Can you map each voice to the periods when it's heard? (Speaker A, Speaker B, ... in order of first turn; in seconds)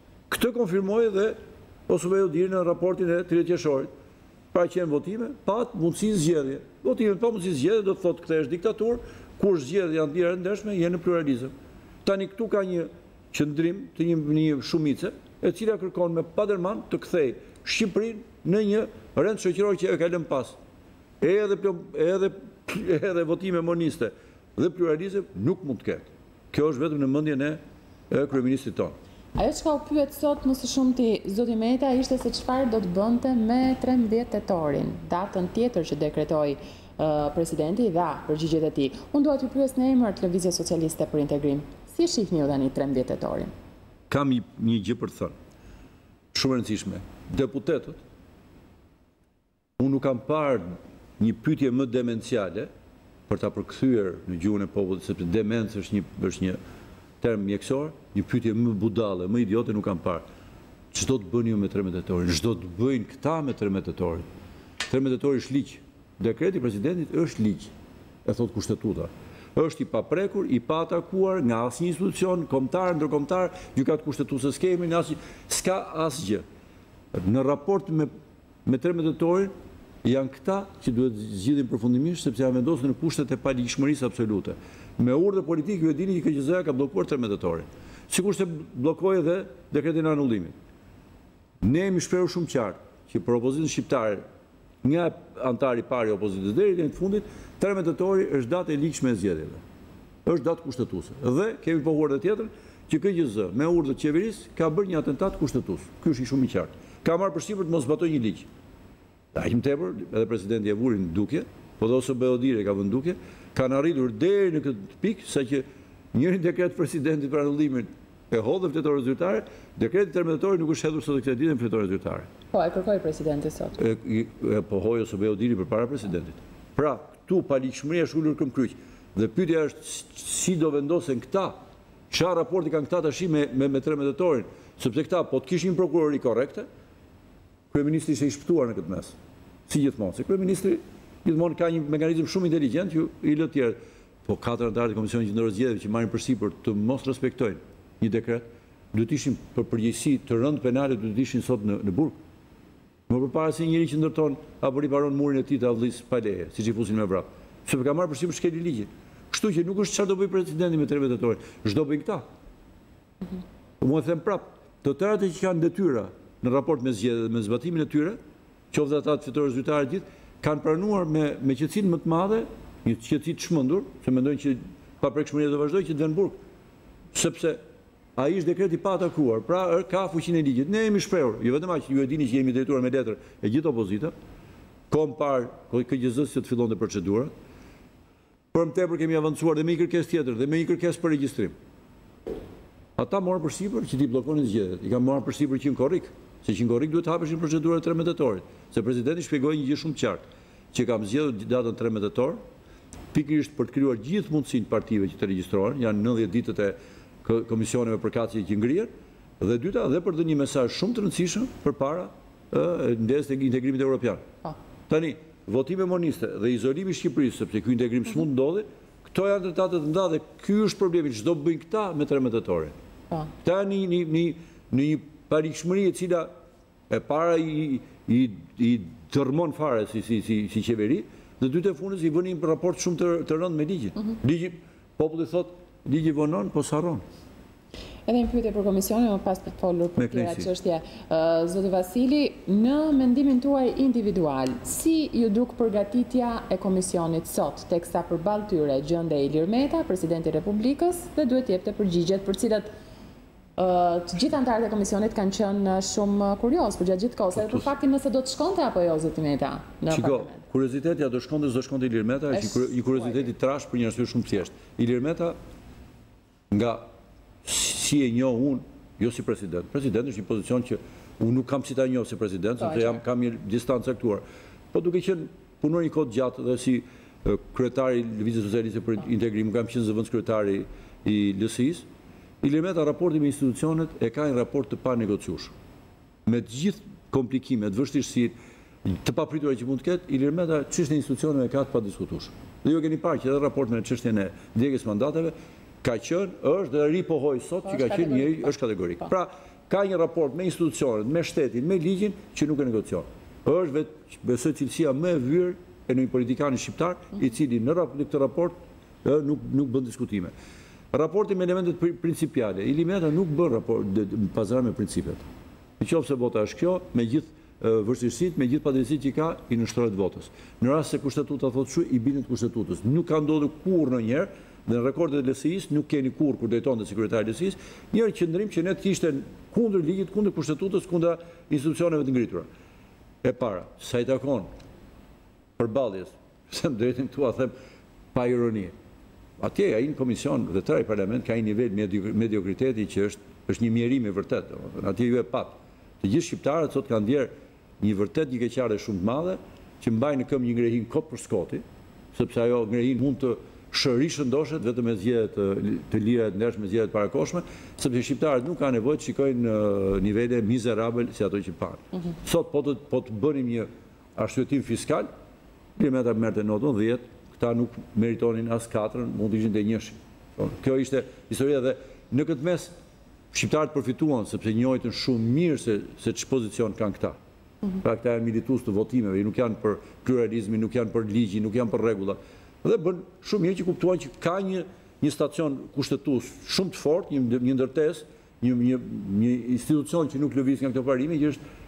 Speaker A: 0.3-1.4, 1.9-3.9, 4.5-11.5, 12.0-20.6, 21.2-27.6, 28.1-28.9, 44.1-45.3, 46.3-48.0, 49.8-50.6, 51.2-52.7, 53.3-56.6, 57.2-60.2, 60.9-64.3, 64.9-67.7, 68.2-76.4, 77.1-78.1, 78.7-79.5, 80.0-90.5, 91.6-94.2, 94.8-99.6, 100.3-108.5, 109.3-122.3, 123.8-131.6, 132.1-136.7, 137.7-139.2, 139.7-152.1, 153.1-162.2, 163.8-168.2, 168.7-176.4, 177.1-177.6, 178.2-184.1, 184.9-187.3, 188.5-191.5, 193.0-202.4, 203.1-214.2, 214.9-222.7, 223.4-226.3, 226.9-237.0, 240.0-240.5, 259.9-265.4, 266.5-266.9, 267.4-281.9, 282.4-285.5, 286.3-288.3, 288.9-310.3, 310.9-315.2, 315.8-332.5, 333.2-334.5, 335.6-337.5, 338.1-338.7, 339.4-351.6, 352.1-365.1, 365.8-372.7, 373.3-377.2, 377.8-391.4
Speaker B: 29.4-43.5, 122.5-123.8, 238.1-252.7, 253.6-260.4, 262.3-263.3, 272.6-273.0, 297.7-298.5